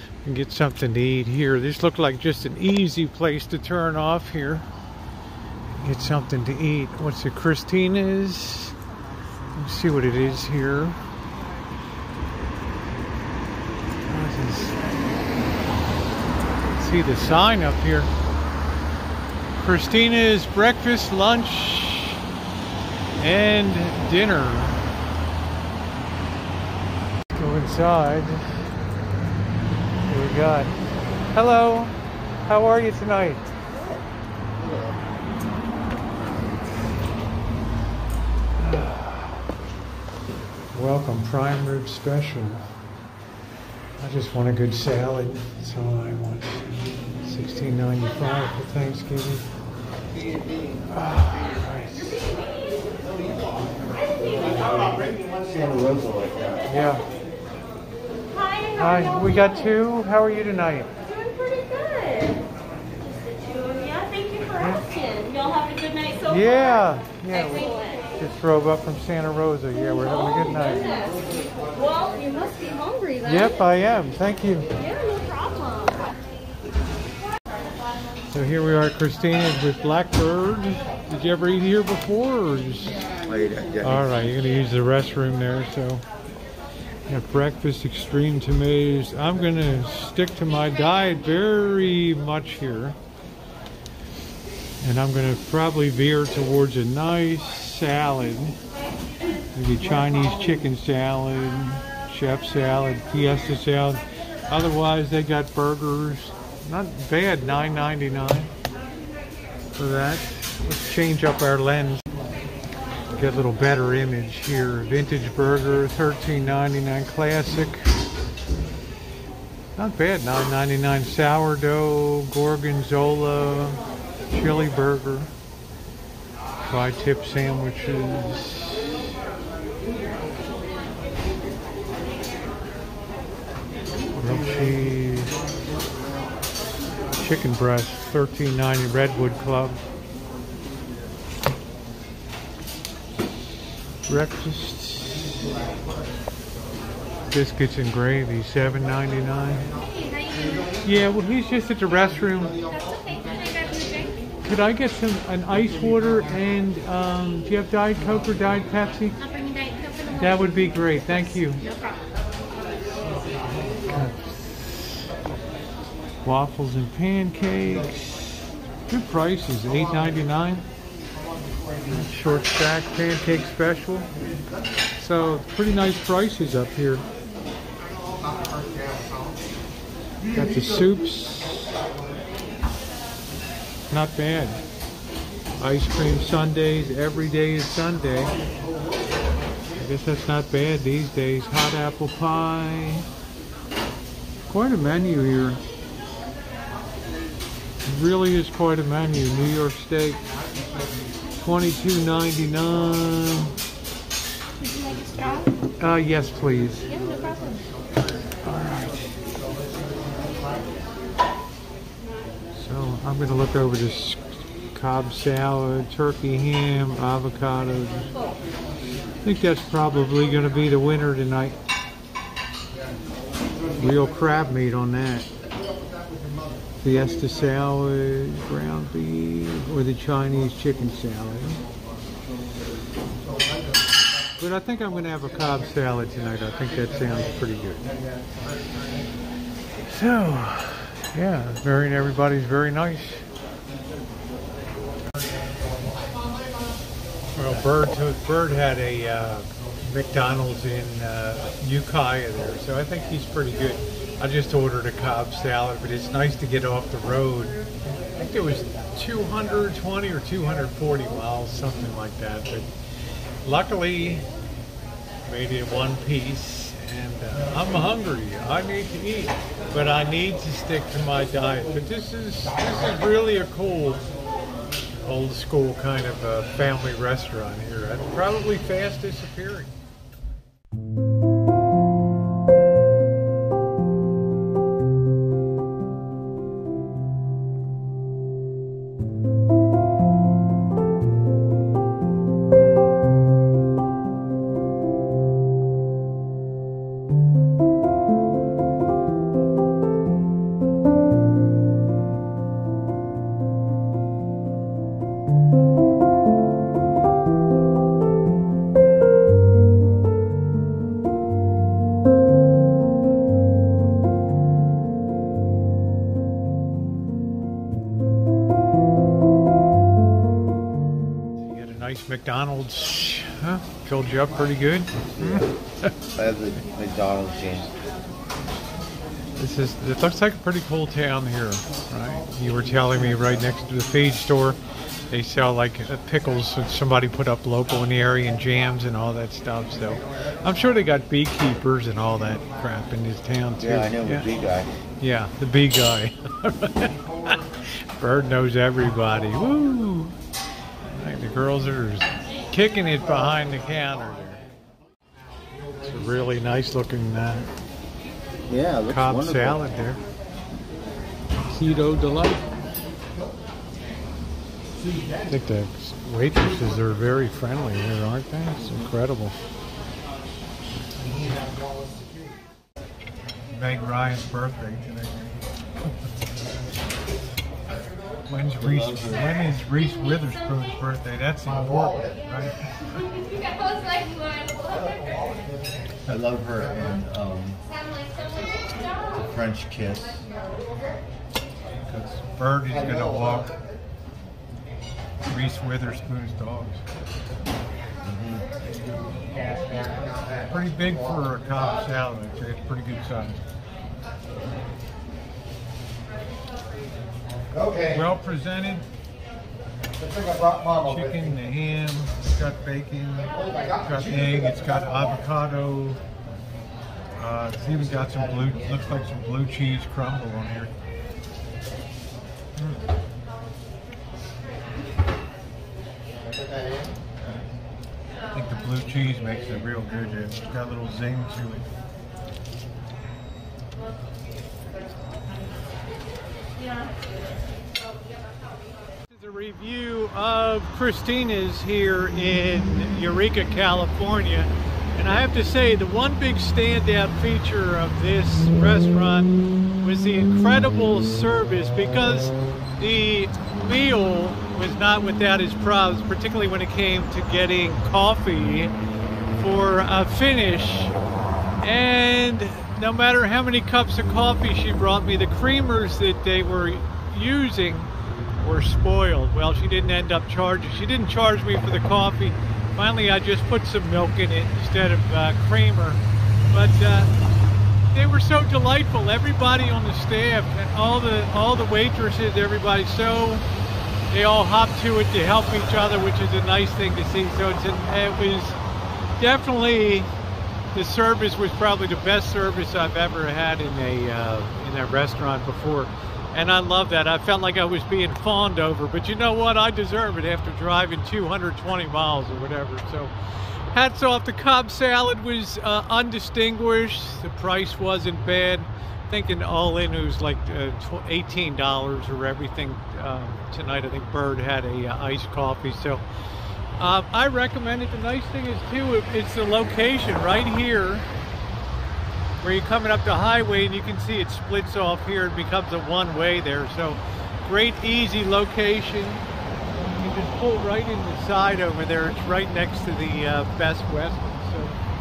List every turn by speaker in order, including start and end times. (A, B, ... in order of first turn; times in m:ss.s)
0:00.2-0:04.7 A
0:05.7-0:08.8 A
0:09.5-0:11.0 A
0:14.1-0:14.8 A
0:16.7-0:18.1 A
0:19.6-0:22.2 A
0:23.2-0:24.8 A
0:27.3-0:28.7 A
0:30.1-0:30.8 A
0:31.3-0:33.5 A
0:34.6-0:35.0 B
0:38.6-0:39.5 A
0:40.7-0:42.8 A
0:44.0-0:49.5 A
0:50.9-0:52.3 A
0:54.4-0:54.8 A
0:55.3-0:56.6 B
0:56.7-0:57.1 A
0:58.4-0:58.7 C
0:58.7-1:00.9 A
1:01.1-1:02.4 C
1:03.2-1:06.2 C
1:04.5-1:04.9 A
1:06.2-1:11.1 A
1:11.8-1:13.2 C
1:13.2-1:14.7 A
1:14.8-1:16.0 C
1:18.3-1:23.1 A
1:23.2-1:24.3 B
1:23.8-1:26.0 A
1:27.1-1:33.0 A
1:34.8-1:38.6 A
1:39.5-1:48.5 A
1:49.8-1:52.0 A
1:53.1-1:58.1 A
1:59.8-2:05.3 A
2:06.6-2:09.0 A
2:14.2-2:15.3 A
2:17.1-2:19.8 A
2:24.1-2:25.3 A
2:27.3-2:29.7 A
2:30.8-2:32.6 A
2:33.0-2:34.1 C
2:34.4-2:39.3 A
2:39.5-2:40.0 C
2:40.0-2:41.6 A
2:43.8-2:44.3 A
2:46.2-2:48.0 A
2:48.9-2:50.7 A
2:51.9-2:54.1 A
2:55.0-2:57.0 A
3:00.3-3:01.7 A
3:03.9-3:04.6 A
3:05.6-3:08.4 A
3:09.8-3:13.1 A
3:14.5-3:15.6 A
3:17.8-3:20.2 A
3:21.4-3:23.5 A
3:24.7-3:25.5 C
3:25.8-3:27.0 A
3:27.1-3:27.6 C
3:28.4-3:29.0 A
3:32.5-3:38.1 A
3:39.2-3:41.6 A
3:43.8-3:45.3 A
3:46.8-3:51.6 A
3:54.4-3:57.9 A
3:59.8-4:03.3 A
4:07.4-4:17.6 A
4:18.2-4:22.7 A
4:23.4-4:24.3 A
4:25.2-4:34.0 A
4:35.0-4:39.7 A
5:21.4-5:25.9 A
5:25.2-5:25.5 B
5:26.2-5:27.8 B
5:29.4-5:44.3 A
5:43.6-5:44.8 B
5:45.0-5:50.2 A
5:50.8-5:54.4 A
5:55.8-5:57.5 A
5:58.5-5:59.7 B
5:58.9-6:00.0 A
6:01.5-6:02.5 A
6:05.2-6:09.4 A
6:13.5-6:15.4 A
6:18.3-6:23.2 A
6:18.6-6:19.3 B
6:26.0-6:27.7 B
6:28.9-6:30.3 B
6:31.8-6:33.6 A
6:35.3-6:36.8 A
6:38.0-6:38.5 B
6:40.5-6:43.4 A
6:47.8-6:48.9 A
6:50.7-6:56.0 A
6:57.2-7:00.8 A
7:08.3-7:11.7 A
7:19.1-7:38.8 A
7:39.3-7:41.0 A
7:41.6-7:57.1 A
7:57.9-8:03.4 A
8:04.1-8:08.6 A
8:09.2-8:10.1 A
8:10.7-8:36.0 A
8:36.8-8:41.1 A
8:42.4-8:49.2 A
8:50.0-8:54.8 A